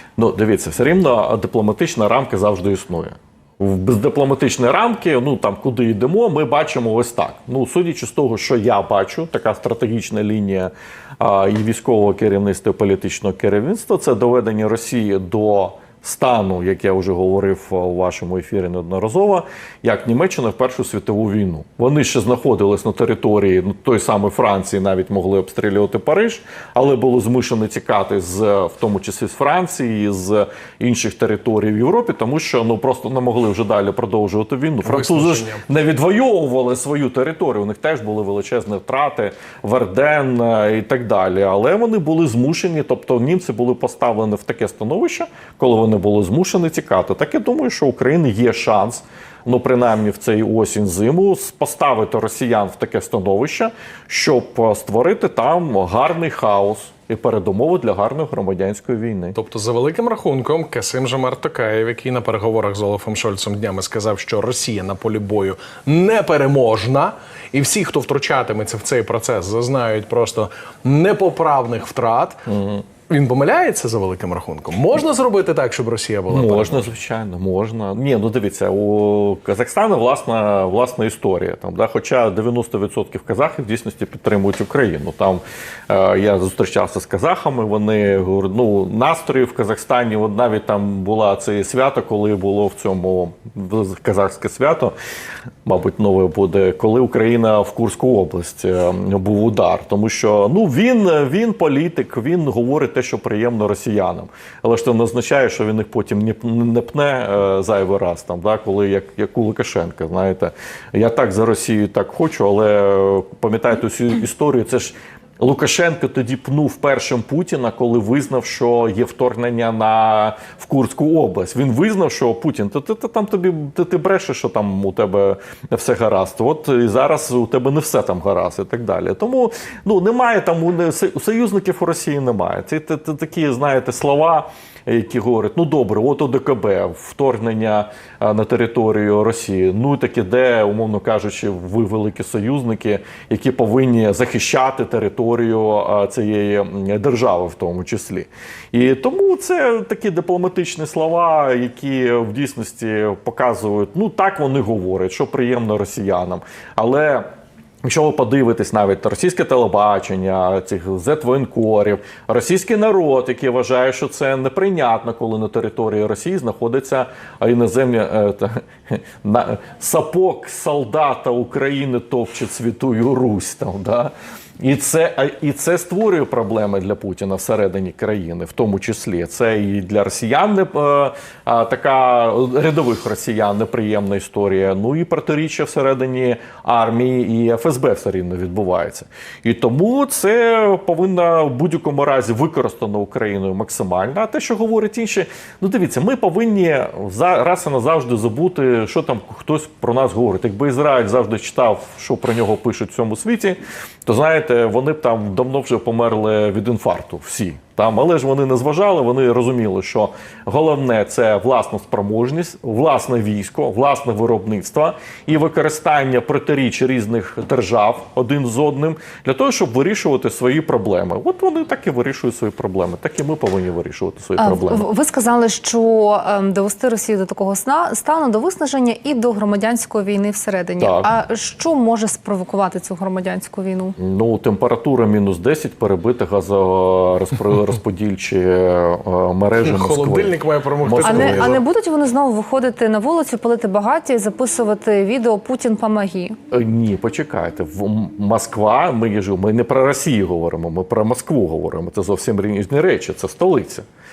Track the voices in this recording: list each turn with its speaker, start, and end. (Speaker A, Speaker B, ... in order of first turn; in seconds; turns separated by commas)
Speaker A: 0.2-59.4, Speaker B: 34.8-35.6, Speaker B: 59.4-72.4, Speaker A: 72.5-72.9, Speaker B: 73.1-76.9, Speaker A: 76.3-94.9, Speaker A: 95.7-157.3, Speaker A: 157.8-224.9, Speaker C: 224.4-234.0, Speaker A: 230.8-231.1, Speaker A: 234.0-241.5, Speaker B: 239.6-241.6, Speaker C: 241.1-246.4, Speaker A: 246.5-253.8